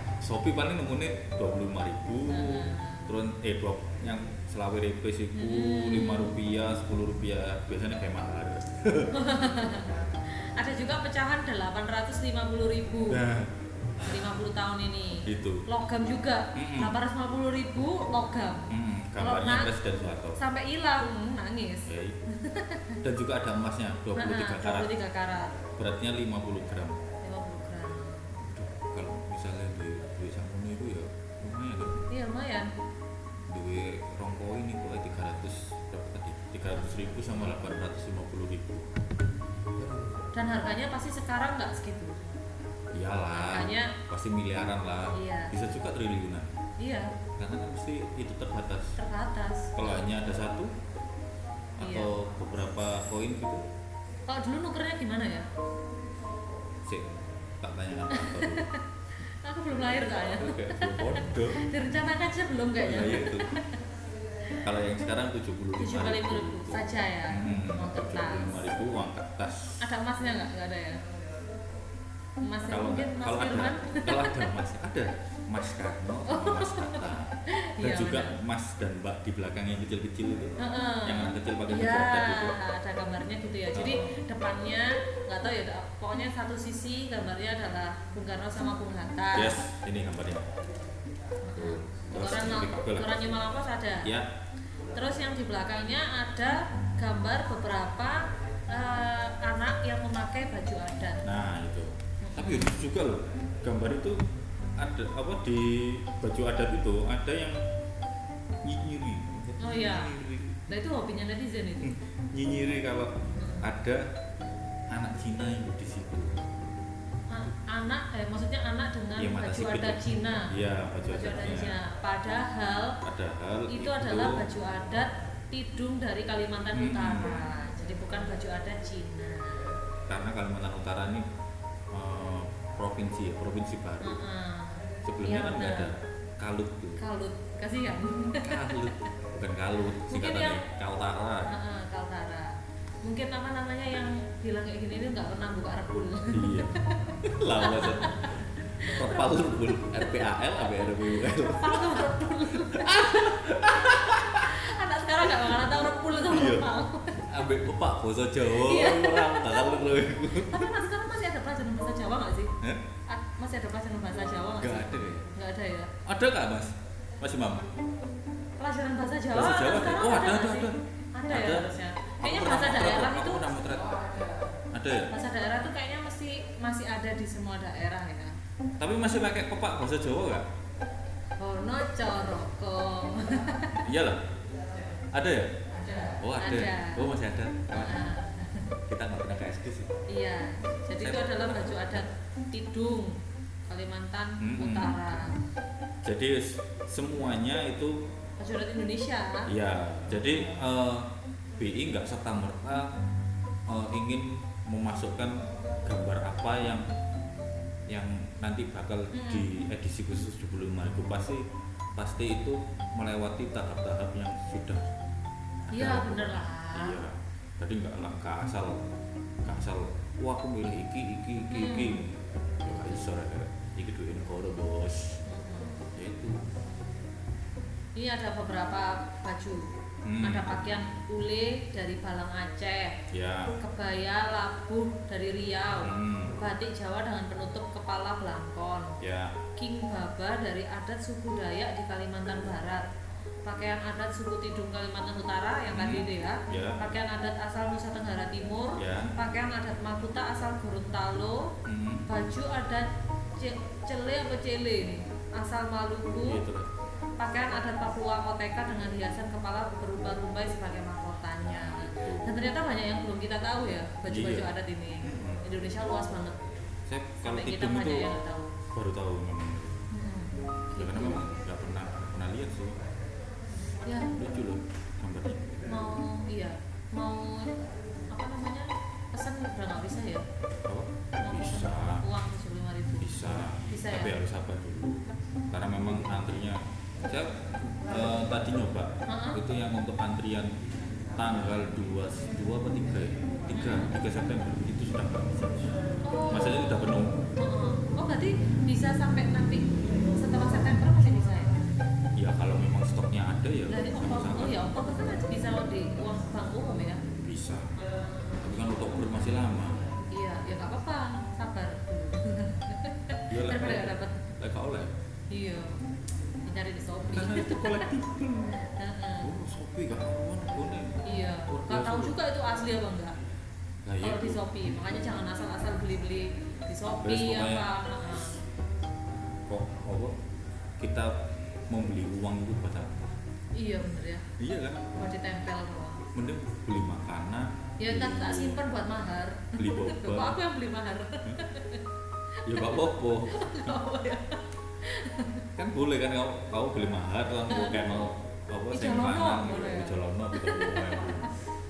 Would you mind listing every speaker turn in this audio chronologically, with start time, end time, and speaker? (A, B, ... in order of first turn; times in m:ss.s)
0:00.2-0:09.1 A
0:02.3-0:03.1 B
0:05.3-0:06.3 B
0:09.1-0:13.2 B
0:13.1-0:13.5 A
0:14.0-0:19.8 B
0:15.2-0:15.6 A
0:16.5-0:16.9 A
0:18.7-0:20.4 A
0:20.3-0:23.0 B
0:21.8-0:22.2 A
0:23.0-0:24.9 A
0:24.2-0:25.6 B
0:25.8-0:27.0 A
0:27.2-0:28.3 B
0:28.3-0:32.0 A
0:32.1-0:32.7 B
0:33.5-0:38.9 A
0:36.8-0:37.5 B
0:40.3-0:42.3 B
0:42.9-0:46.5 A
0:43.3-0:44.0 B
0:45.1-0:45.5 B
0:46.8-0:47.1 B
0:47.4-0:49.0 A
0:49.0-0:50.1 B
0:49.8-0:50.7 A
0:51.8-0:53.6 A
0:51.8-0:52.1 B
0:54.3-0:55.5 B
0:56.8-0:58.7 A
0:58.1-1:03.8 B
1:00.1-1:01.7 A
1:02.8-1:03.6 A
1:04.6-1:09.8 A
1:05.8-1:08.6 B
1:09.8-1:11.0 B
1:12.4-1:14.5 B
1:12.6-1:22.6 A
1:16.3-1:18.3 B
1:20.6-1:29.6 B
1:23.7-1:24.1 A
1:29.3-1:30.5 A
1:31.4-1:34.1 B
1:31.6-1:33.4 A
1:34.9-1:41.2 B
1:41.2-1:44.2 A
1:42.2-1:42.7 B
1:44.8-1:47.6 A
1:48.6-1:50.6 A
1:49.6-1:50.1 B
1:50.7-1:51.9 B
1:51.8-1:54.1 A
1:53.3-1:53.7 B
1:54.9-1:56.5 A
1:57.3-2:00.5 B
1:59.2-2:01.8 A
2:01.1-2:03.0 B
2:03.0-2:04.4 A
2:03.7-2:09.7 B
2:06.7-2:07.4 A
2:10.1-2:11.2 A
2:11.9-2:14.2 A
2:14.0-2:15.9 B
2:15.0-2:17.0 A
2:17.0-2:19.1 B
2:18.4-2:21.5 A
2:20.1-2:20.6 B
2:21.4-2:37.2 B
2:26.3-2:34.5 A
2:36.3-2:36.7 A
2:37.2-2:40.8 A
2:38.5-2:42.5 B
2:43.1-2:45.9 B
2:44.6-2:45.3 A
2:46.0-2:47.7 A
2:48.6-2:53.6 B
2:49.3-2:54.0 A
2:54.7-2:55.1 A
2:55.1-2:58.4 B
2:58.8-3:00.4 A
3:01.4-3:03.9 B
3:03.8-3:04.2 A
3:05.1-3:05.5 A
3:06.0-3:08.1 A
3:06.1-3:07.1 B
3:07.7-3:08.7 B
3:08.9-3:09.9 A
3:10.1-3:15.3 B
3:10.9-3:11.9 A
3:14.4-3:15.0 A
3:16.0-3:17.9 A
3:18.4-3:19.5 B
3:19.5-3:21.0 A
3:21.6-3:22.9 A
3:23.7-3:26.8 A
3:27.9-3:31.4 A
3:29.1-3:29.5 B
3:32.0-3:34.8 A
3:35.7-3:38.8 A
3:35.7-3:37.0 B
3:39.4-3:45.2 A
3:41.5-3:42.0 B
3:45.3-3:45.8 B
3:45.9-3:46.4 A
3:48.0-3:53.0 B
3:50.0-3:50.5 A
3:53.1-3:53.5 A
3:53.6-3:58.9 B
3:55.8-3:56.4 A
3:59.0-3:59.3 A
3:59.6-4:02.8 B
4:03.4-4:11.5 B
4:05.7-4:06.9 A
4:08.8-4:09.1 A
4:11.6-4:12.0 A
4:12.1-4:12.8 B
4:13.4-4:16.4 B
4:16.1-4:16.7 A
4:17.2-4:26.4 B
4:21.4-4:22.4 A
4:24.1-4:24.5 A
4:25.0-4:25.4 A
4:26.9-4:28.1 A
4:27.2-4:28.5 B
4:28.7-4:29.8 A
4:29.9-4:31.3 B
4:30.8-4:32.8 A
4:33.8-4:34.1 B
4:34.1-4:35.7 A
4:35.7-4:37.5 B
4:38.1-4:40.2 B
4:40.7-4:42.0 A
4:41.2-4:43.1 B
4:43.0-4:45.0 A
4:43.7-4:44.2 B
4:45.5-4:47.3 A
4:47.9-4:50.5 A
4:49.1-4:49.4 B
4:51.2-4:55.7 A
4:53.5-4:53.9 B
4:56.0-5:01.6 B
4:56.3-4:57.2 A
5:02.2-5:04.7 A
5:03.7-5:07.0 B
5:07.2-5:07.7 A
5:08.4-5:09.9 A
5:10.1-5:14.3 B
5:13.3-5:14.9 A
5:15.3-5:15.8 B
5:16.4-5:17.9 B
5:17.0-5:18.7 A
5:18.7-5:19.3 B
5:19.2-5:22.2 A
5:21.0-5:23.1 B
5:23.8-5:24.4 A
5:24.0-5:28.4 B
5:27.0-5:27.7 A
5:29.5-5:30.2 A
5:30.8-5:31.1 A
5:31.7-5:33.1 A
5:33.6-5:34.2 B
5:34.4-5:34.9 A
5:34.9-5:36.1 B
5:36.1-5:38.6 A
5:37.8-5:41.8 B
5:39.6-5:40.4 A
5:42.4-5:43.8 A
5:42.5-5:45.5 B
5:45.6-5:51.3 A
5:47.5-5:48.0 B
5:48.7-5:51.2 B